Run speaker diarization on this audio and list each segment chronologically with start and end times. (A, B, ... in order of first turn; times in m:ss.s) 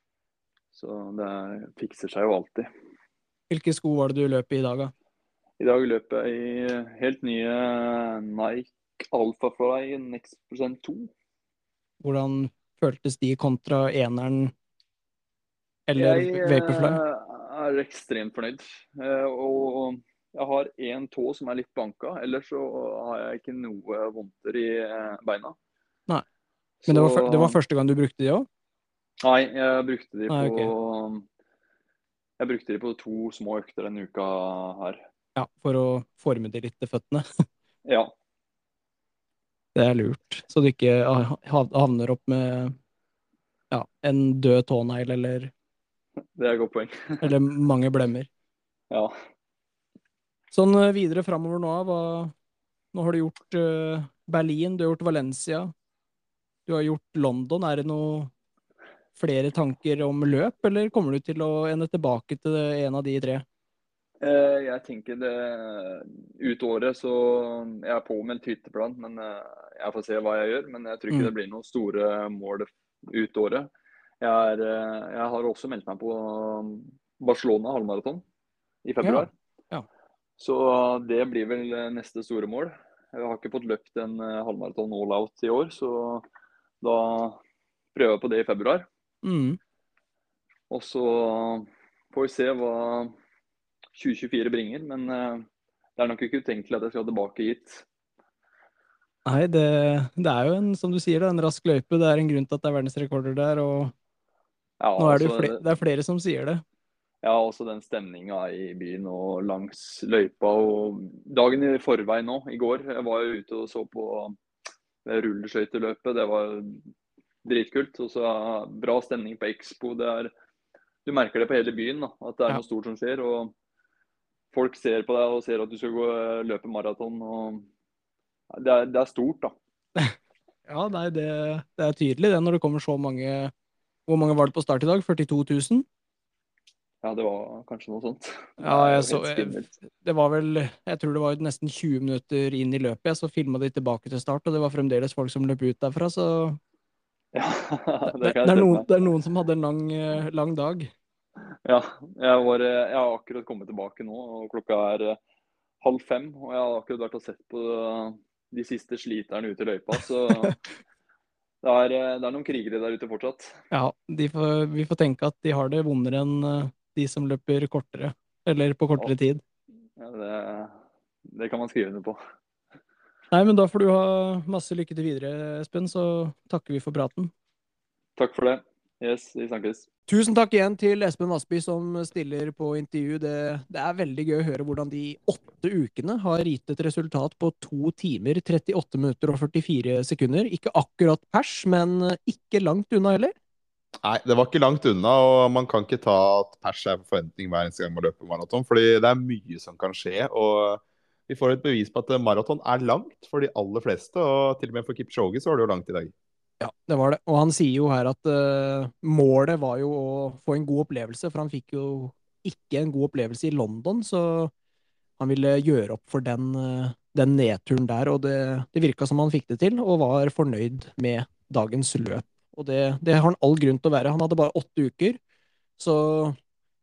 0:00.7-0:02.7 A
0:03.5-0:04.9 B
0:05.6-0:11.1 A
0:12.0-0:14.5 B
0:15.9-0:17.0 B
0:16.0-0:25.6 A
0:26.8-0:27.6 A
0:26.9-0:28.5 B
0:29.2-0:31.2 A
0:30.3-0:30.7 B
0:32.4-0:35.0 A
0:35.4-0:37.2 B
0:37.8-0:38.1 A
0:39.7-0:42.8 B
0:43.7-0:45.5 B
0:46.3-0:47.3 A
0:47.2-0:48.3 B
0:50.5-0:52.3 B
0:52.9-0:55.7 B
0:56.7-0:58.3 B
0:59.2-1:03.4 B
1:04.2-1:13.7 A
1:14.2-1:18.2 A
1:18.8-1:19.3 A
1:19.0-1:19.8 B
1:20.4-1:26.2 A
1:26.8-1:27.4 A
1:27.9-1:28.9 A
1:29.2-1:29.6 B
1:30.7-1:33.1 A
1:33.9-1:37.8 A
1:39.2-1:43.9 B
1:44.8-1:45.7 A
1:45.0-1:46.6 B
1:47.2-1:54.4 A
1:55.0-1:56.9 A
1:57.4-2:00.3 A
2:01.0-2:03.5 A
2:04.5-2:07.7 A
2:08.5-2:09.5 A
2:10.7-2:13.5 B
2:14.1-2:15.8 B
2:17.0-2:19.7 A
2:18.6-2:26.6 B
2:27.3-2:28.8 A
2:28.1-2:30.9 B
2:31.6-2:35.2 A
2:35.8-2:40.5 A
2:41.6-2:43.6 A
2:43.7-2:49.4 B
2:50.0-2:52.2 A
2:53.3-2:57.3 B
2:58.2-2:59.9 A
3:00.1-3:13.3 B
3:14.0-3:26.1 C
3:26.6-3:34.5 B
3:35.2-3:45.2 B
3:45.8-3:46.4 B